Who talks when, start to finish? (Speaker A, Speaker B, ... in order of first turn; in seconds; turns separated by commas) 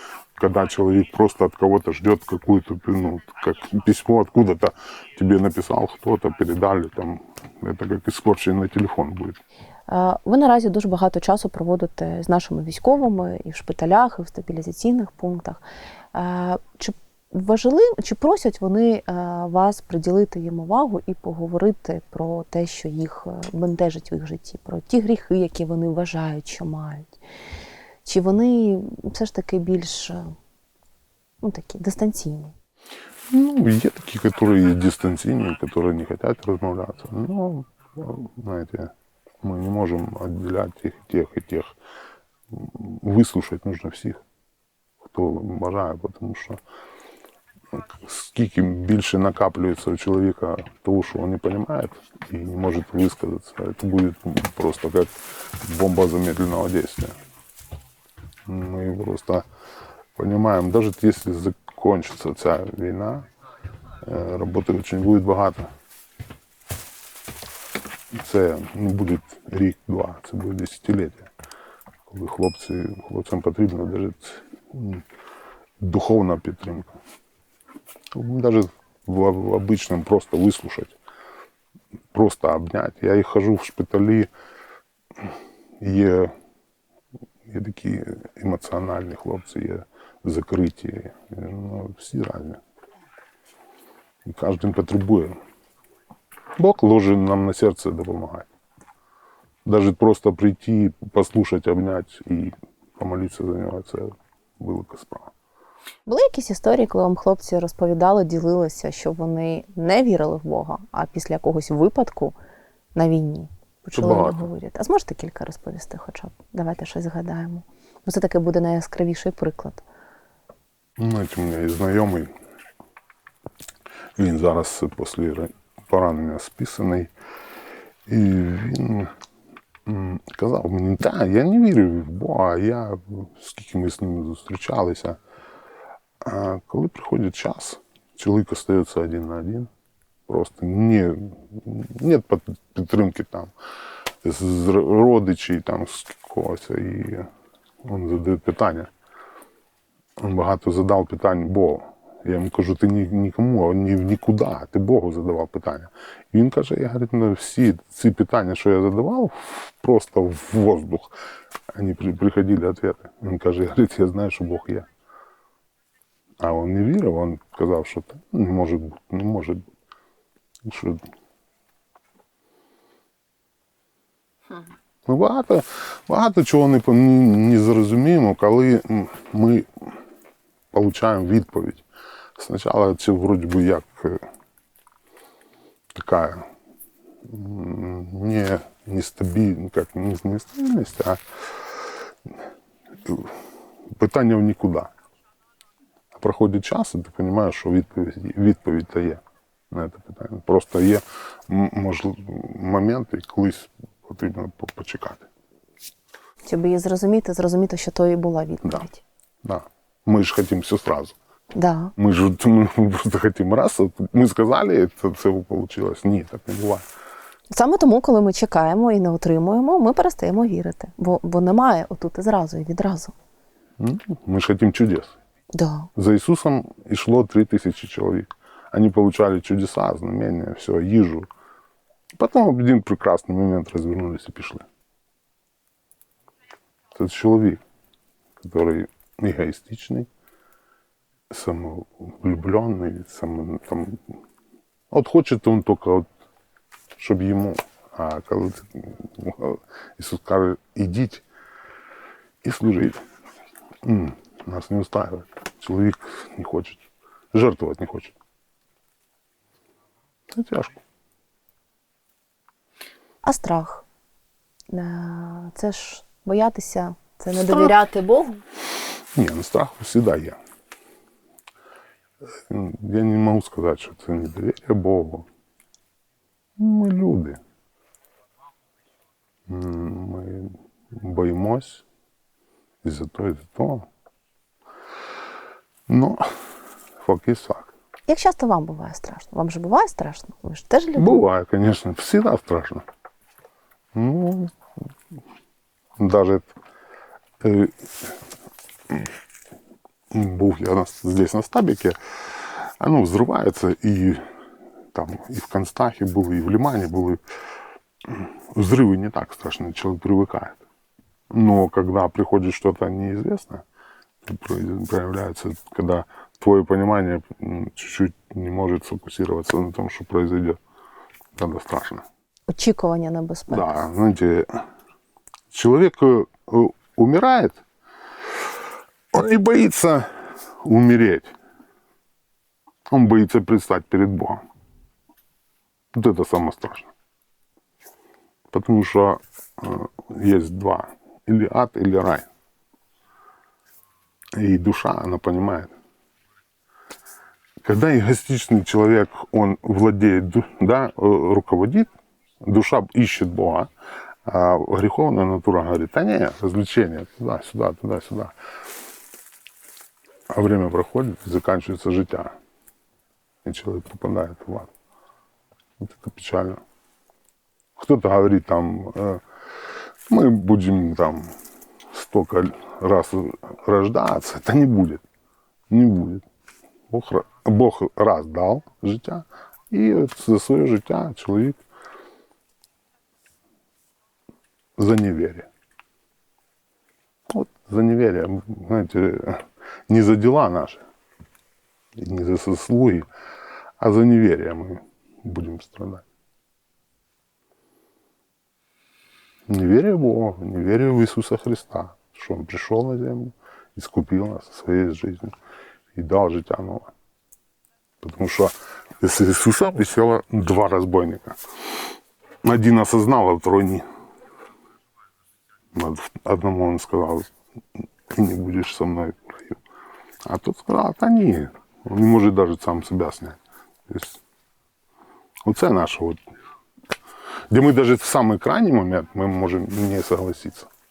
Speaker A: 0.4-9.4, Speaker B: 9.9-15.6, Speaker B: 16.1-27.2, Speaker B: 28.0-30.3, Speaker B: 31.4-32.5, Speaker A: 33.3-41.7, Speaker A: 42.5-44.2, Speaker A: 45.0-46.6, Speaker A: 47.7-57.2, Speaker A: 58.5-59.5, Speaker A: 60.1-63.3, Speaker A: 64.0-65.7, Speaker A: 68.1-71.3, Speaker A: 72.1-75.0, Speaker A: 75.8-77.0, Speaker A: 78.1-81.0, Speaker A: 82.1-84.3, Speaker A: 85.8-86.3, Speaker A: 87.5-92.6, Speaker A: 94.2-95.4, Speaker A: 96.6-98.5, Speaker A: 99.6-105.3, Speaker B: 106.1-112.4, Speaker B: 112.9-119.8, Speaker A: 114.0-114.5, Speaker A: 121.0-122.3, Speaker A: 124.2-127.1, Speaker A: 128.1-129.1, Speaker A: 129.8-135.2, Speaker A: 136.2-139.7, Speaker A: 140.3-143.5, Speaker A: 144.2-147.3, Speaker A: 147.8-148.9, Speaker A: 150.2-161.1, Speaker A: 161.7-164.9, Speaker A: 166.4-169.7, Speaker A: 170.6-171.0, Speaker A: 175.1-179.9, Speaker A: 180.7-181.8, Speaker A: 182.4-184.2, Speaker A: 185.9-186.5, Speaker A: 187.2-192.3, Speaker A: 193.0-193.4, Speaker A: 193.9-194.9, Speaker A: 196.1-205.3, Speaker B: 206.4-209.0, Speaker A: 209.4-211.2, Speaker B: 211.5-211.9, Speaker A: 211.9-216.8, Speaker B: 217.5-223.1, Speaker A: 223.8-225.2, Speaker B: 225.5-225.9, Speaker A: 225.9-231.3, Speaker A: 232.1-234.6, Speaker A: 236.9-237.6, Speaker A: 238.4-240.1, Speaker A: 241.3-244.2, Speaker A: 244.9-246.1, Speaker A: 246.9-251.2, Speaker A: 252.4-253.0, Speaker A: 253.8-258.1, Speaker A: 260.3-260.8, Speaker B: 263.2-263.9, Speaker B: 264.7-268.4, Speaker A: 269.1-270.4, Speaker A: 272.3-275.3, Speaker A: 276.6-277.4, Speaker A: 279.5-281.8, Speaker A: 282.8-283.9, Speaker A: 285.9-286.3, Speaker A: 287.0-287.7, Speaker B: 288.1-291.2, Speaker A: 290.9-292.8, Speaker A: 293.9-294.5, Speaker A: 296.0-296.5, Speaker A: 297.4-298.1, Speaker A: 300.1-304.2, Speaker A: 304.9-307.2, Speaker A: 308.0-310.6, Speaker A: 311.3-313.6, Speaker A: 314.2-320.6, Speaker A: 321.3-322.1, Speaker B: 322.5-323.7, Speaker A: 323.5-324.6, Speaker A: 325.5-327.6, Speaker A: 329.1-331.3, Speaker A: 332.9-334.4, Speaker A: 335.9-336.9, Speaker A: 338.5-342.3, Speaker A: 344.4-345.7, Speaker A: 347.6-351.9, Speaker A: 352.4-353.7, Speaker A: 354.2-358.3, Speaker A: 360.3-362.4, Speaker A: 363.4-364.7, Speaker A: 365.8-366.6, Speaker A: 367.8-371.3, Speaker A: 371.9-375.0, Speaker A: 375.7-376.2, Speaker A: 376.9-381.6, Speaker A: 384.8-385.5, Speaker A: 387.3-390.9, Speaker A: 391.9-393.1, Speaker A: 393.8-396.0, Speaker A: 399.5-405.3, Speaker A: 405.9-406.9, Speaker A: 408.0-411.4, Speaker A: 412.4-413.9, Speaker A: 415.7-419.6, Speaker A: 420.2-424.2, Speaker A: 425.4-426.2, Speaker A: 427.5-430.7